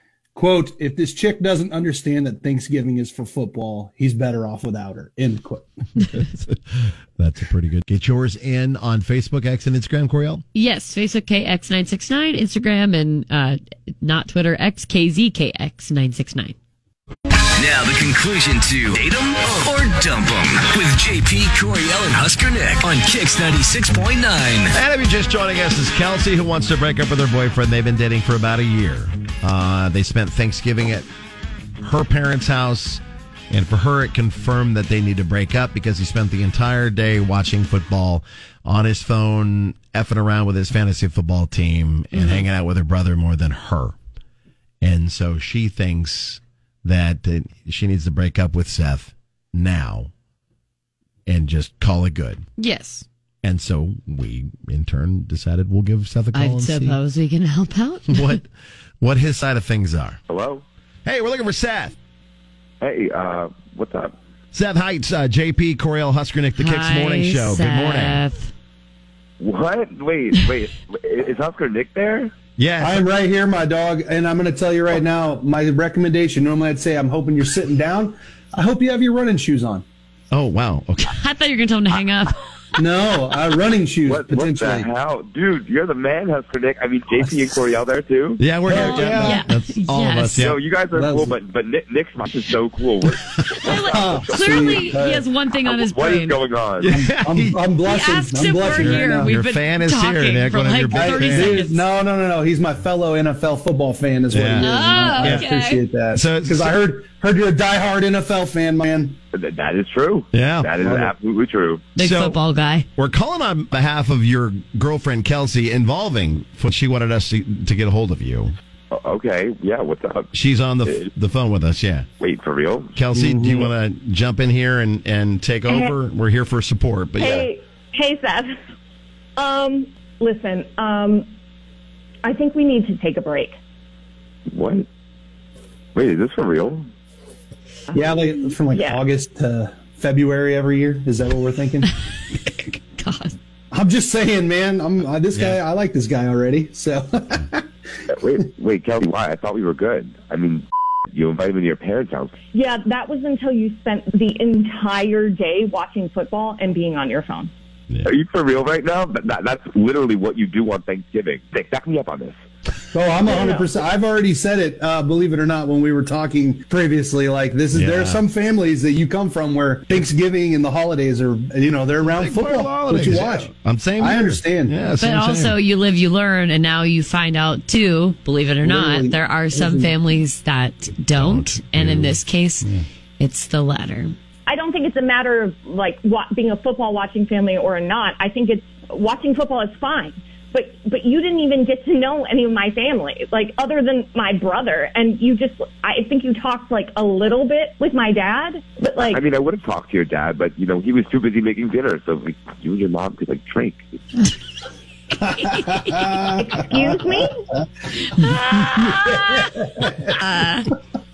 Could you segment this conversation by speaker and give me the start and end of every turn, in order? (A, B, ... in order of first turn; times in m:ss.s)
0:00.4-0:05.7 A
0:06.1-0:10.4 B
0:10.5-0:16.5 C
0:17.5-0:24.7 D
0:24.7-0:31.0 B
0:31.8-0:44.0 B
0:42.2-0:42.4 C
0:44.8-0:50.1 B
0:51.2-0:52.4 B
0:52.6-0:53.0 C
0:53.4-0:57.0 B
0:56.3-0:58.4 C
0:58.1-0:58.4 B
0:59.0-1:00.2 B
1:00.3-1:00.6 E
1:01.0-1:01.9 B
1:02.8-1:04.1 E
1:04.5-1:08.2 B
1:06.6-1:08.5 C
1:09.4-1:12.3 E
1:12.6-1:13.0 B
1:12.8-1:19.8 A
1:20.3-1:21.1 B
1:21.1-1:22.3 C
1:22.8-1:24.9 A
1:24.0-1:28.4 E
1:28.4-1:30.6 B
1:28.6-1:29.4 A
1:28.7-1:30.5 C
1:30.4-1:35.0 E
1:30.9-1:31.3 A
1:33.6-1:36.4 C
1:33.9-1:35.2 A
1:35.6-1:36.9 E
1:36.8-1:37.5 B
1:36.9-1:39.3 A
1:37.8-1:41.8 C
1:38.7-1:41.6 B
1:40.9-1:49.2 A
1:44.3-1:45.4 B
1:44.6-1:45.8 C
1:46.1-1:46.7 B
1:49.3-1:51.8 E
1:50.3-1:50.7 B
1:50.8-1:51.1 A
1:52.0-1:52.8 C
1:52.0-1:52.4 B
1:53.0-1:58.5 B
1:58.9-2:00.3 E
2:00.3-2:02.0 B
2:02.2-2:02.9 E
2:03.0-2:07.4 B
2:03.1-2:03.7 A
2:05.7-2:05.9 F
2:07.2-2:08.5 F
2:09.4-2:11.2 F
2:12.2-2:13.5 F
2:14.5-2:14.9 E
2:15.9-2:16.9 E
2:17.9-2:21.9 A
2:18.7-2:19.0 F
2:22.7-2:23.3 C
2:23.7-2:27.6 A
2:25.3-2:25.6 B
2:28.1-2:32.3 E
2:32.5-2:37.5 F
2:38.0-2:42.4 E
2:42.9-2:54.7 A
2:43.2-2:43.7 F
2:47.7-2:48.2 B
2:52.0-2:55.6 B
2:55.0-3:02.7 C
2:58.6-2:59.9 A
3:01.1-3:02.8 B
3:03.2-3:04.1 C
3:04.5-3:19.2 F
3:19.0-3:23.8 E
3:25.2-3:26.8 A
3:25.4-3:26.1 C
3:26.4-3:27.4 F
3:28.0-3:30.7 C
3:28.2-3:30.2 A